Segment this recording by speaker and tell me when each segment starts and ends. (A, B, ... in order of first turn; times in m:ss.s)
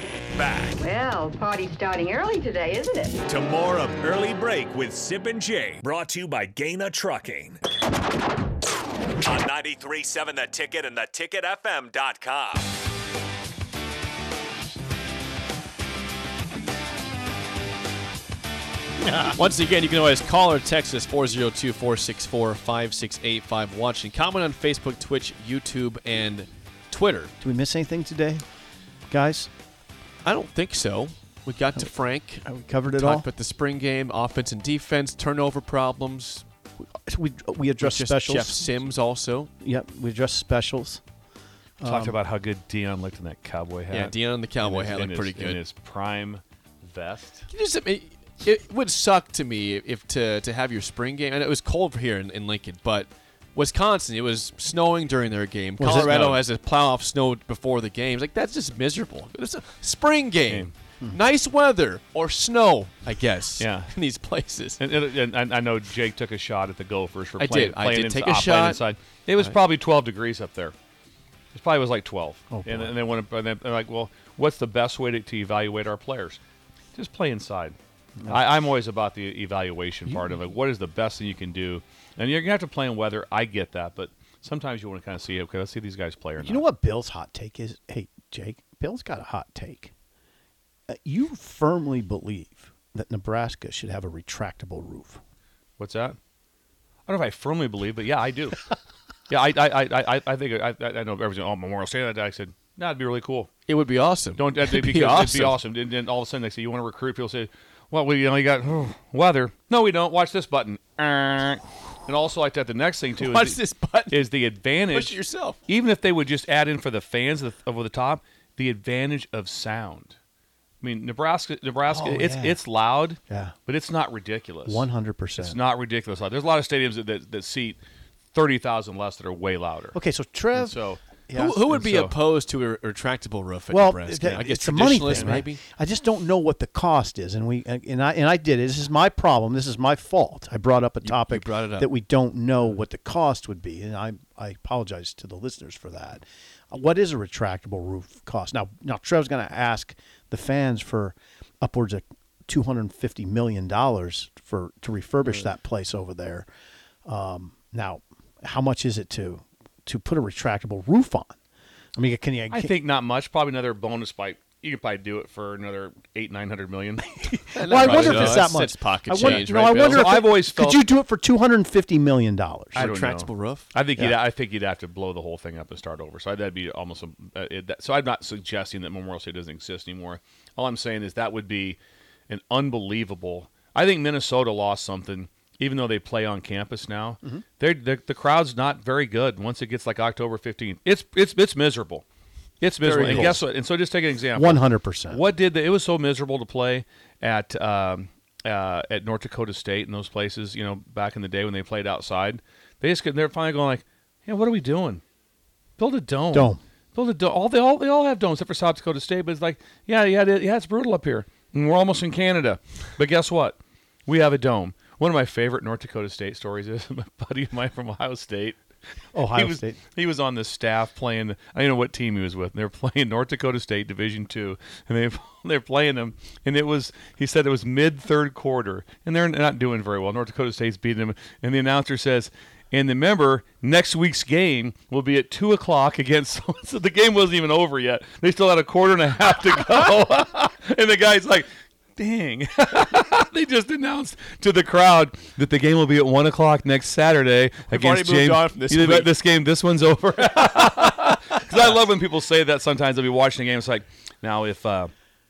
0:00.3-0:00.8 A
0:00.8-0:03.2 B
0:03.3-0:07.6 A
0:09.2-0:12.7 A
0:19.1-0:27.3 C
0:27.4-0:28.4 D
0:29.1-0:29.5 D
0:30.2-0:36.4 C
0:32.4-0:33.3 D
0:36.8-0:38.6 D
0:37.8-0:39.5 C
0:39.6-0:41.0 D
0:41.8-0:42.2 D
0:41.8-0:47.4 E
0:43.9-0:45.6 C
0:47.5-1:04.8 C
0:55.8-0:56.3 D
0:55.9-0:56.4 E
1:03.6-1:03.9 E
1:04.8-1:10.7 E
1:07.4-1:08.8 C
1:11.5-1:16.4 E
1:12.5-1:12.9 D
1:16.9-1:17.8 E
1:18.3-1:26.6 E
1:26.4-1:29.9 D
1:30.9-1:35.2 D
1:35.8-1:36.2 E
1:37.1-1:38.6 E
1:39.3-1:43.5 E
1:43.7-1:45.6 C
1:44.4-2:00.2 E
1:53.2-1:54.2 C
1:54.9-1:55.6 C
2:00.8-2:04.9 E
2:01.9-2:02.6 D
2:03.3-2:03.6 D
2:04.6-2:05.6 D
2:05.4-2:07.8 E
2:08.3-2:10.0 E
2:09.9-2:11.6 D
2:10.6-2:11.0 E
2:11.3-2:15.6 C
2:11.7-2:12.1 E
2:13.7-2:36.5 D
2:15.0-2:15.4 E
2:21.0-2:21.9 C
2:37.0-2:41.3 D
2:42.0-2:42.7 D
2:42.5-2:47.1 E
2:47.1-2:52.9 D
2:47.5-2:50.1 C
2:47.8-2:48.5 E
2:49.2-2:50.8 E
2:52.7-2:53.7 C
2:52.7-3:12.0 E
3:12.6-3:25.0 E
3:12.8-3:13.4 C
3:13.0-3:13.4 D
3:14.3-3:15.2 D
3:25.8-3:38.6 E
3:26.3-3:26.6 D
3:39.1-3:39.8 D
3:39.3-4:14.9 E
4:07.7-4:09.1 C